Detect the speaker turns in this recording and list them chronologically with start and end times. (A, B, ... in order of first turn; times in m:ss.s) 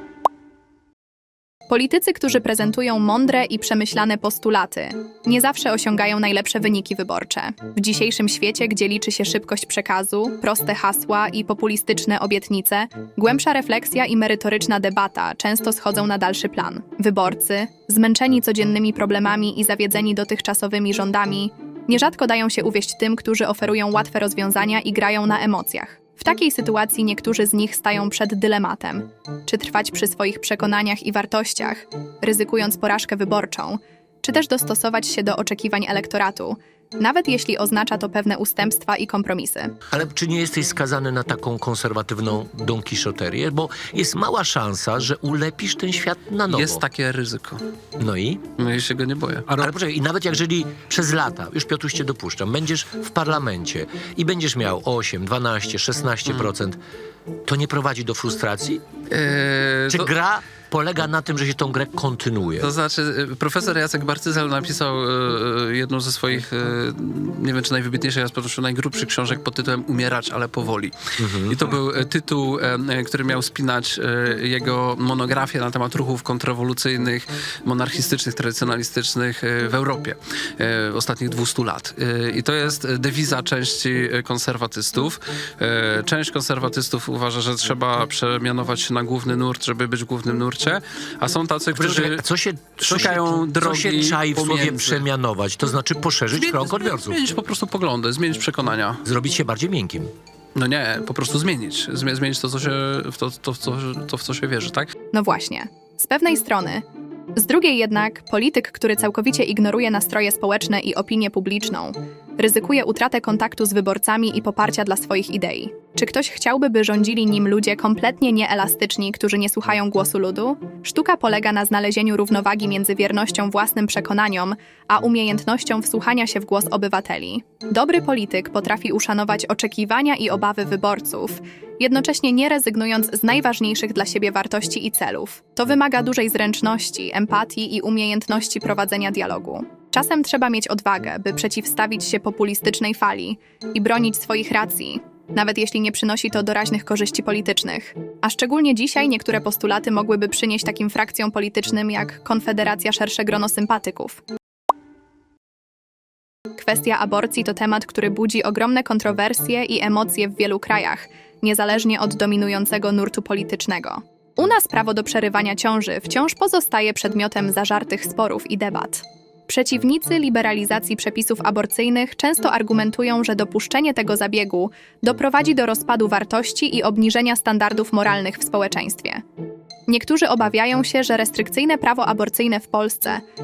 0:01.7-0:39.7 A
0:39.9-0:46.8 B
0:46.5-0:47.6 C
0:48.0-0:48.4 B
0:48.6-0:49.7 C
0:49.5-0:56.8 B
0:56.2-0:56.5 C
0:57.5-0:58.8 B
0:59.1-1:00.1 C
0:59.9-1:02.7 B
1:02.6-1:32.2 C
1:11.2-1:11.7 B
1:31.8-1:37.2 B
1:32.8-1:35.0 C
1:36.3-1:39.0 C
1:39.0-1:40.1 B
1:40.5-1:44.9 C
1:45.1-2:34.2 A
2:36.6-2:59.2 A
2:59.9-3:03.2 A